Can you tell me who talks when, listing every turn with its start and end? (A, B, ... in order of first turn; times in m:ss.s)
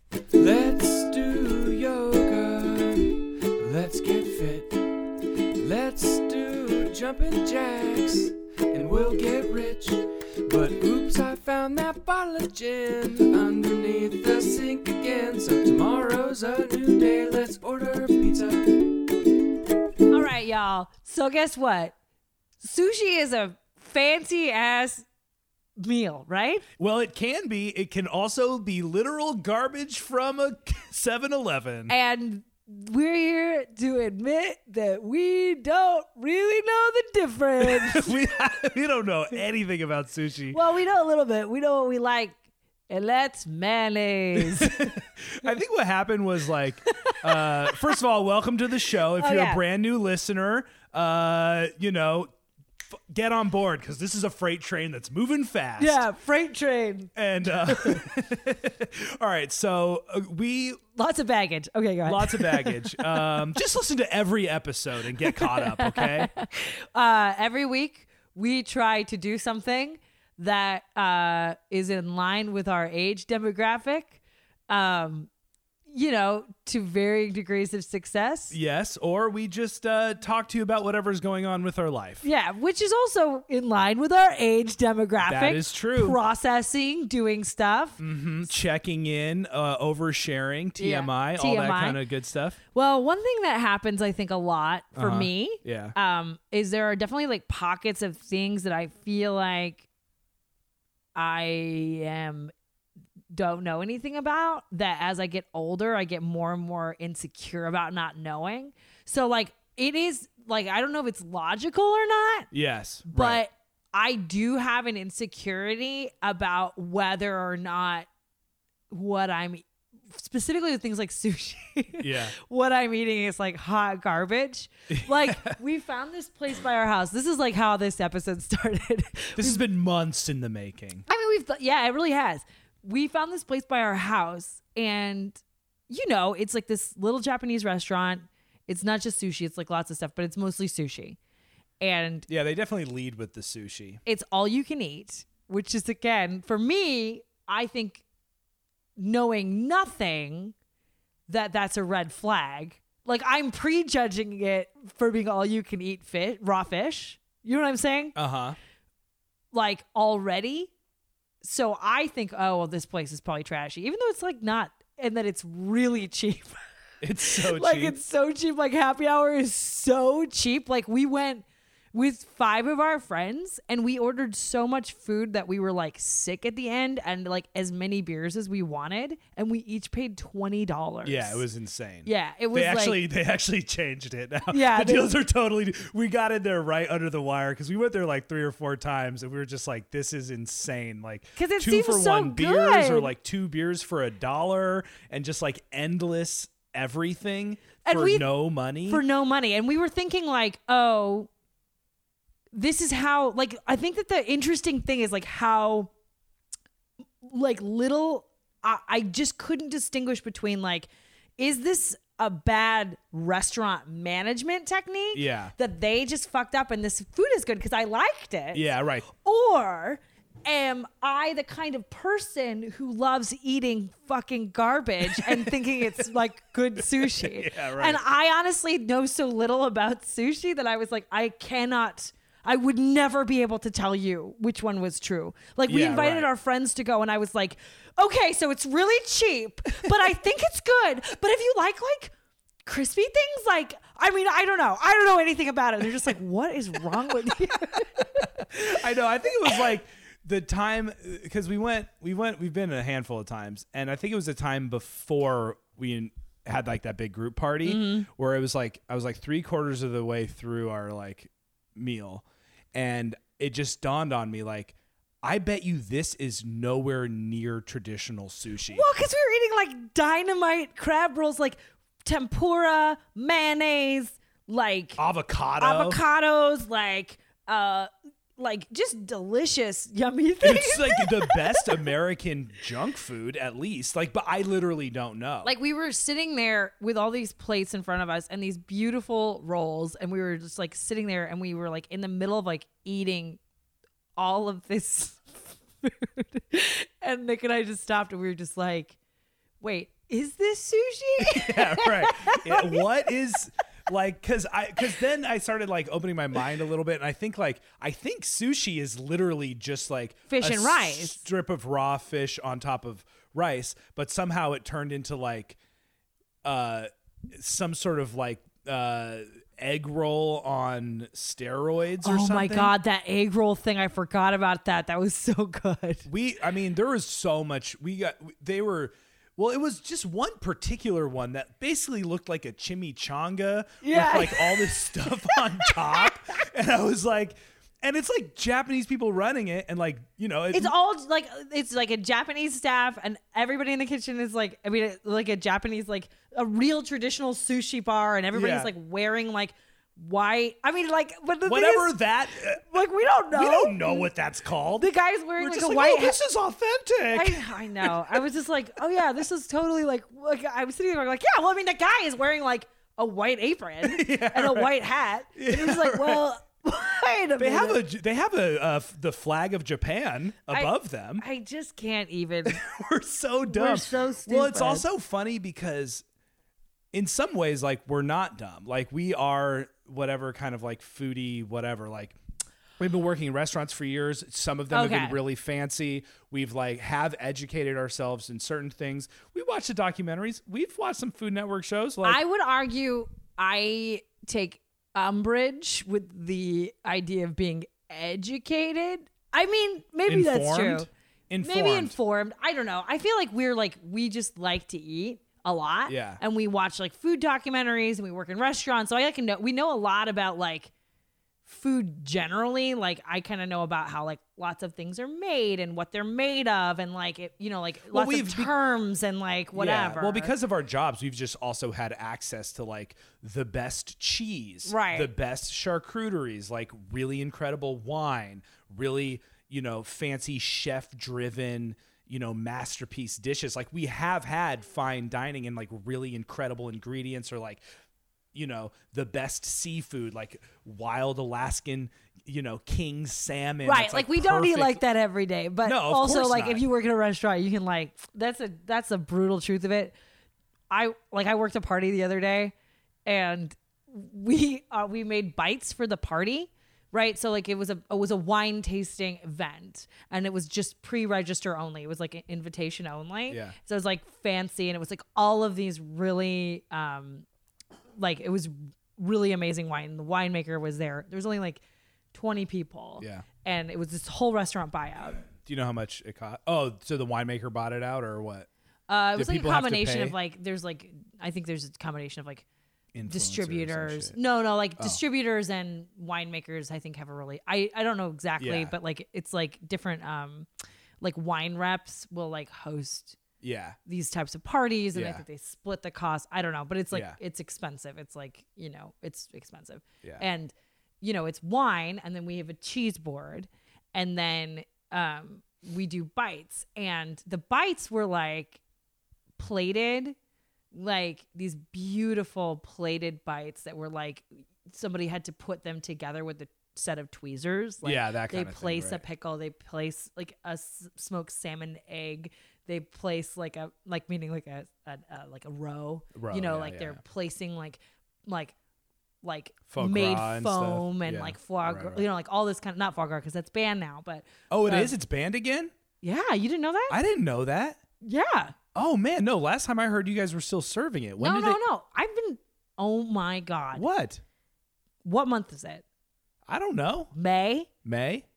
0:00.3-0:04.8 A
0:05.6-0:19.0 A
0:20.1-0:21.9 B
0:22.6-0:25.0 B
0:25.8-0:26.6 B
0:26.8-0:31.9 C
0:31.9-0:38.2 B
0:37.6-0:40.6 C
0:40.5-0:42.4 B
0:42.9-0:44.9 B
0:44.4-0:52.3 C
0:47.1-0:47.7 B
0:49.2-0:49.6 B
0:52.9-0:56.0 C
0:55.8-0:57.1 B
0:57.1-1:00.8 C
0:57.6-0:58.0 B
1:00.9-1:03.3 B
1:02.0-1:06.3 C
1:05.2-1:15.3 B
1:15.9-1:18.6 B
1:18.5-1:22.2 C
1:22.2-1:28.0 B
1:25.2-1:26.2 C
1:28.0-1:32.6 C
1:30.8-1:32.0 B
1:32.7-1:39.8 B
1:35.0-1:36.0 C
1:41.1-1:42.5 B
1:43.3-1:52.5 B
1:52.5-1:53.4 C
1:53.1-1:58.1 B
1:58.9-2:09.6 B
2:02.0-2:02.3 C
2:04.9-2:05.6 C
2:09.4-2:11.0 C
2:11.1-2:21.2 B
2:21.8-2:22.3 B
2:22.3-2:24.0 C
2:24.0-2:28.0 B
2:29.0-2:30.5 B
2:31.3-2:38.2 B
2:38.2-2:38.6 C
2:39.5-2:40.7 B
2:41.4-2:46.6 B
2:47.0-2:48.0 C
2:47.2-3:01.4 B
3:01.0-3:19.0 C
3:02.0-3:03.0 B
3:04.5-3:05.1 B
3:11.4-3:13.1 B
3:17.8-3:18.3 B
3:18.8-3:21.3 B
3:22.5-3:25.9 B
3:27.2-4:02.1 B
3:35.1-3:35.5 C
3:38.5-3:39.0 C
3:47.0-3:48.0 C
3:55.7-3:56.3 C
4:02.6-4:08.2 B
4:08.2-4:28.8 C
4:17.6-4:18.1 B
4:28.7-4:35.0 B
4:35.0-4:36.0 C
4:35.6-4:41.8 B
4:40.4-4:45.5 C
4:45.4-4:53.4 B
4:54.2-4:59.0 B
4:59.6-5:03.1 B
5:01.2-5:15.6 C
5:10.3-5:11.2 B
5:16.4-5:22.7 C
5:22.0-5:26.1 B
5:26.1-5:40.7 C
5:33.8-5:36.1 B
5:40.5-5:51.9 B
5:48.3-5:48.7 C
5:51.4-5:52.6 C
5:52.6-5:54.1 B
5:53.3-5:58.2 C
5:54.8-5:56.2 B
5:57.1-6:07.8 B
6:03.8-6:04.7 C
6:05.3-6:06.2 C
6:07.4-6:11.2 C
6:10.5-6:12.6 B
6:12.5-6:16.0 C
6:13.5-6:14.8 B
6:16.9-6:22.2 C
6:22.8-6:32.2 C
6:24.7-6:25.2 B
6:32.0-6:40.9 B
6:40.0-6:42.0 C
6:41.4-6:50.7 B
6:45.9-6:46.2 C
6:51.4-7:00.3 B
6:57.9-6:58.5 C
6:59.5-7:17.6 C
7:04.6-7:05.1 B
7:18.3-7:24.8 C
7:23.6-7:30.0 B
7:25.6-7:26.6 C
7:30.7-7:32.5 B
7:33.0-7:47.2 B
7:43.3-7:43.5 C
7:48.0-7:51.6 B
7:52.1-7:55.2 B
7:53.0-7:53.2 C
7:55.4-7:58.5 C
7:58.9-8:02.4 B
7:59.1-8:00.1 C
8:02.9-8:04.2 C
8:03.1-8:10.5 B
8:08.4-8:08.7 C
8:11.0-8:13.2 B
8:13.4-8:13.8 C
8:13.8-8:28.6 B
8:14.9-8:15.2 C
8:16.9-8:17.2 C
8:29.4-8:30.2 B
8:30.7-8:48.5 B
8:37.8-8:39.0 C
8:46.1-8:47.0 C
8:49.2-8:54.9 B
8:49.7-8:52.0 C
8:54.5-8:55.7 C
8:56.0-8:57.0 B
8:56.9-8:57.8 C
8:58.0-8:58.6 B
8:58.7-9:01.6 C
9:01.2-9:03.8 B
9:03.7-9:04.2 C
9:05.0-9:05.8 B
9:06.5-9:07.1 C
9:07.1-9:07.7 B
9:07.8-9:08.2 C